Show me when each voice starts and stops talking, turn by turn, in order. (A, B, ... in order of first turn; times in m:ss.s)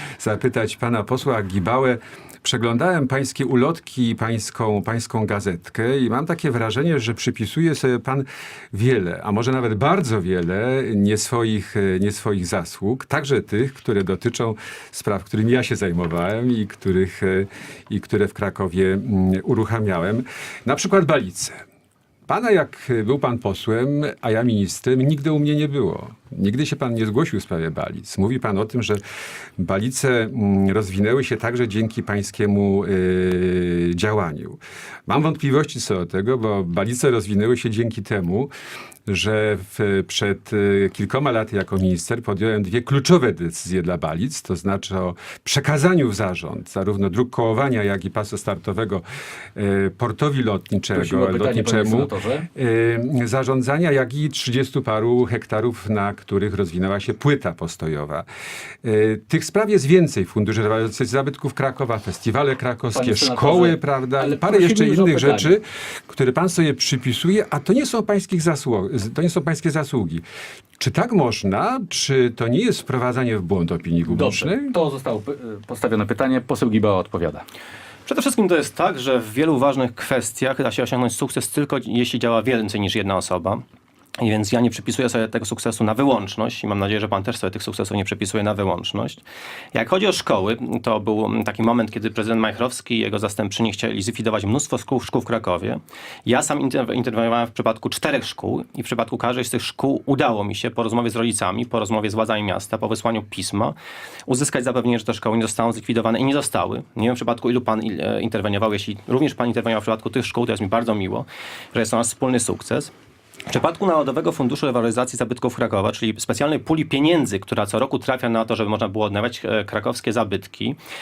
0:00.2-0:21.6 A
0:22.3-0:29.0 A
0:29.6-0:38.5 A
0:39.1-0:49.0 A
0:49.5-0:58.2 A
0:50.9-0:52.5 B
0:58.8-1:10.2 A
1:02.9-1:05.5 B
1:10.8-1:14.7 A
1:14.1-1:17.4 B
1:18.0-1:23.6 C
1:24.2-1:29.2 C
1:29.7-1:43.7 C
1:44.3-1:52.9 C
1:53.5-2:00.8 C